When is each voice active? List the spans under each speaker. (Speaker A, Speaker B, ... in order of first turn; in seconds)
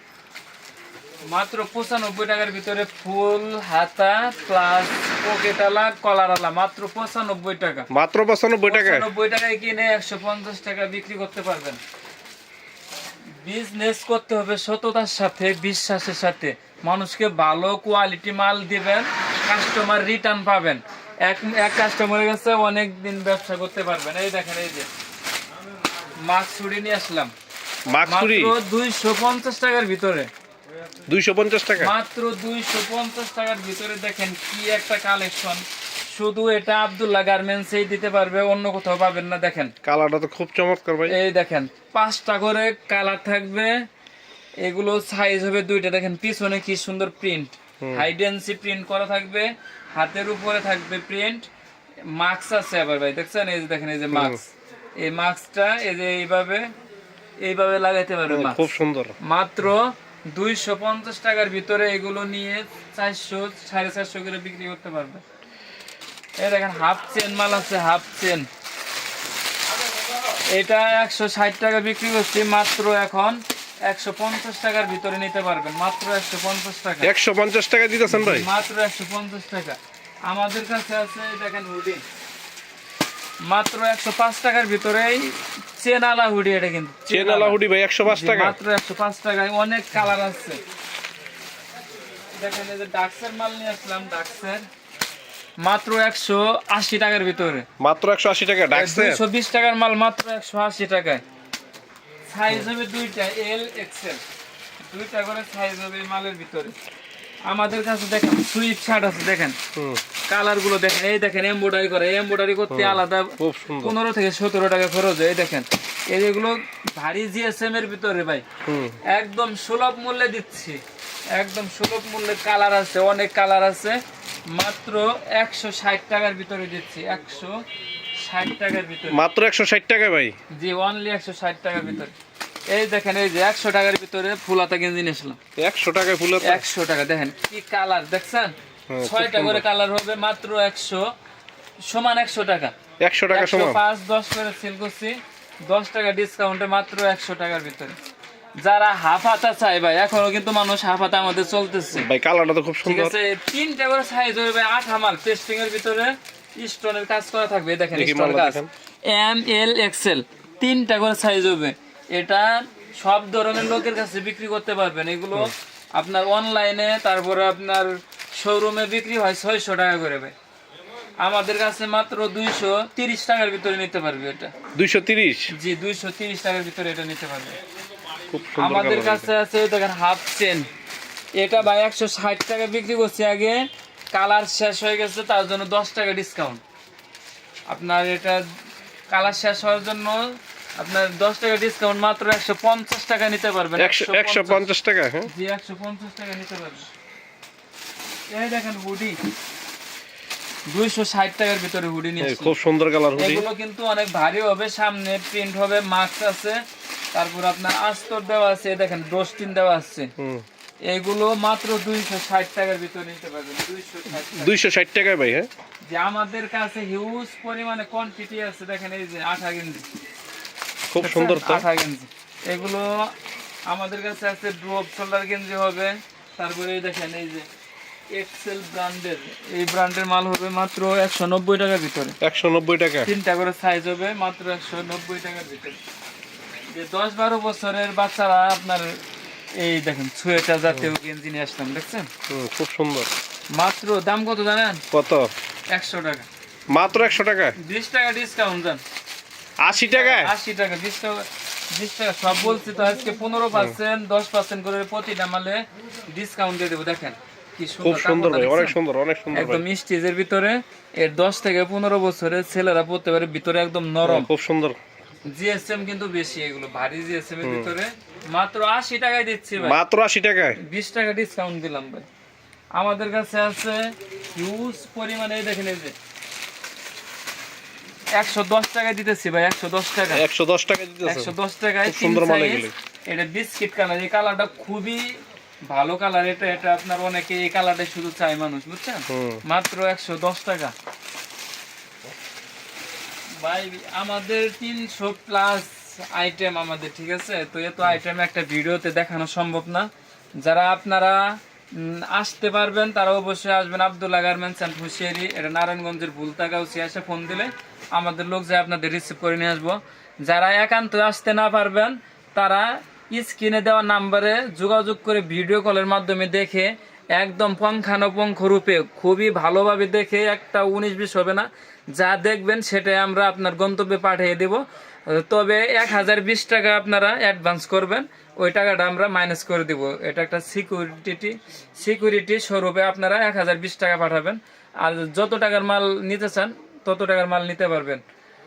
Speaker A: 1.3-7.9, 8.7-11.8, 13.4-24.9, 26.2-27.3, 28.1-30.3, 31.8-39.7, 41.1-43.7, 44.6-51.5, 52.1-54.4, 55.0-56.7, 57.4-65.2, 66.4-68.5, 70.5-77.1, 78.1-82.0, 83.4-90.6, 92.4-94.7, 95.6-97.7, 98.7-101.2, 102.3-104.2, 104.9-106.8, 107.5-109.6, 110.3-118.4, 119.1-120.8, 121.3-124.0, 124.5-127.5, 128.2-129.2, 130.5-132.1, 132.7-135.4, 136.4-141.0, 141.8-142.7, 143.3-148.0, 148.6-152.1, 152.8-170.3, 171.2-174.5, 175.5-177.6, 178.6-180.7, 181.4-183.6, 184.1-186.6, 187.7-188.4, 189.1-194.6, 195.3-196.9, 198.3-199.2, 200.7-202.5, 203.2-206.6, 207.1-210.1, 210.9-214.5, 215.9-219.9, 221.0-223.1, 223.7-227.5, 228.1-232.2, 233.1-235.8, 236.7-239.0, 239.6-242.1, 243.5-244.8, 245.7-246.3, 247.6-248.8, 249.9-258.8, 259.3-264.3, 265.2-269.8, 270.6-272.1, 272.8-275.9, 278.1-280.2, 281.0-290.7, 293.4-299.9, 300.4-338.0
Speaker B: 7.9-9.1, 27.9-28.5, 31.1-31.9, 39.8-41.2, 54.1-54.4, 58.3-59.2, 77.0-78.5, 87.1-88.6, 97.8-99.2, 109.8-110.0, 112.7-114.0, 118.7-119.0, 129.1-130.3, 135.6-136.6, 138.9-139.6, 143.0-143.8, 152.0-153.2, 157.9-158.7, 174.8-175.5, 178.3-179.3, 193.8-195.3, 202.2-203.4, 210.2-210.4, 214.3-215.5, 220.9-221.7, 232.2-233.1, 242.3-243.1, 244.9-245.3, 246.7-247.5, 249.6-250.3, 257.8-259.6, 264.0-264.8, 267.4-267.7, 269.6-270.6, 280.1-282.7, 289.1-289.4